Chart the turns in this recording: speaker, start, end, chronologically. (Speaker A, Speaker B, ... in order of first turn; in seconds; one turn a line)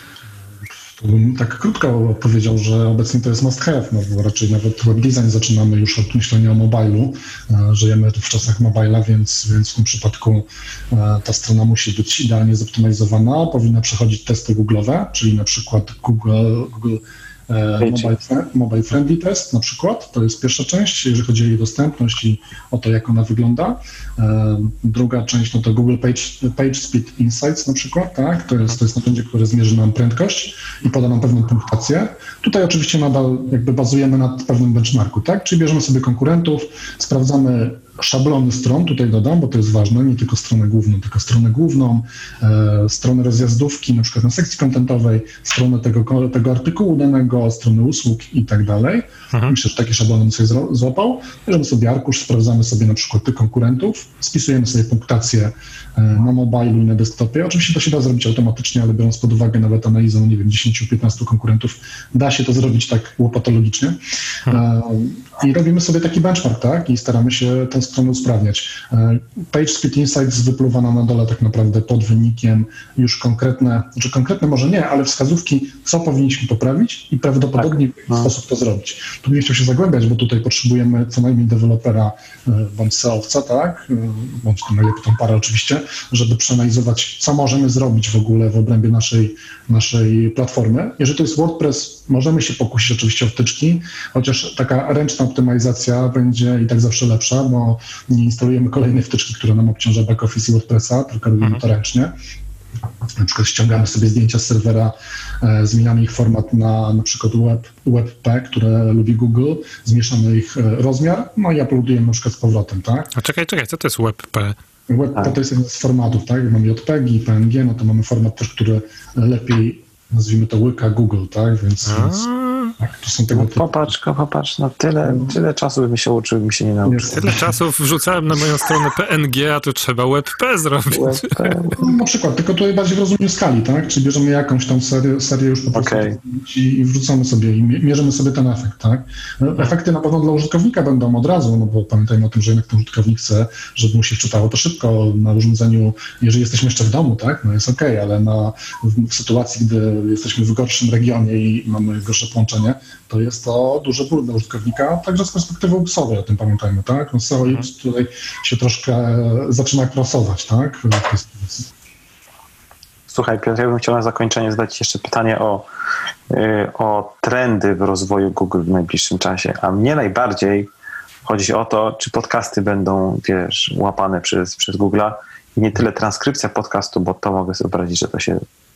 Speaker A: 0.9-102.1
Speaker B: 17.8-18.1
Speaker C: 49.3-49.6
Speaker B: 77.6-78.3
Speaker A: 103.2-113.1
Speaker C: 113.2-114.5
Speaker A: 114.9-122.2
Speaker C: 121.8-122.7
Speaker A: 122.8-123.9
Speaker B: 123.3-127.4
Speaker A: 125.0-125.3
Speaker A: 126.8-127.4
Speaker C: 127.1-131.5
Speaker B: 130.9-131.9
Speaker A: 131.7-161.7
Speaker B: 135.7-136.2
Speaker B: 163.1-165.7
Speaker B: 166.3-170.7
Speaker B: 171.2-178.4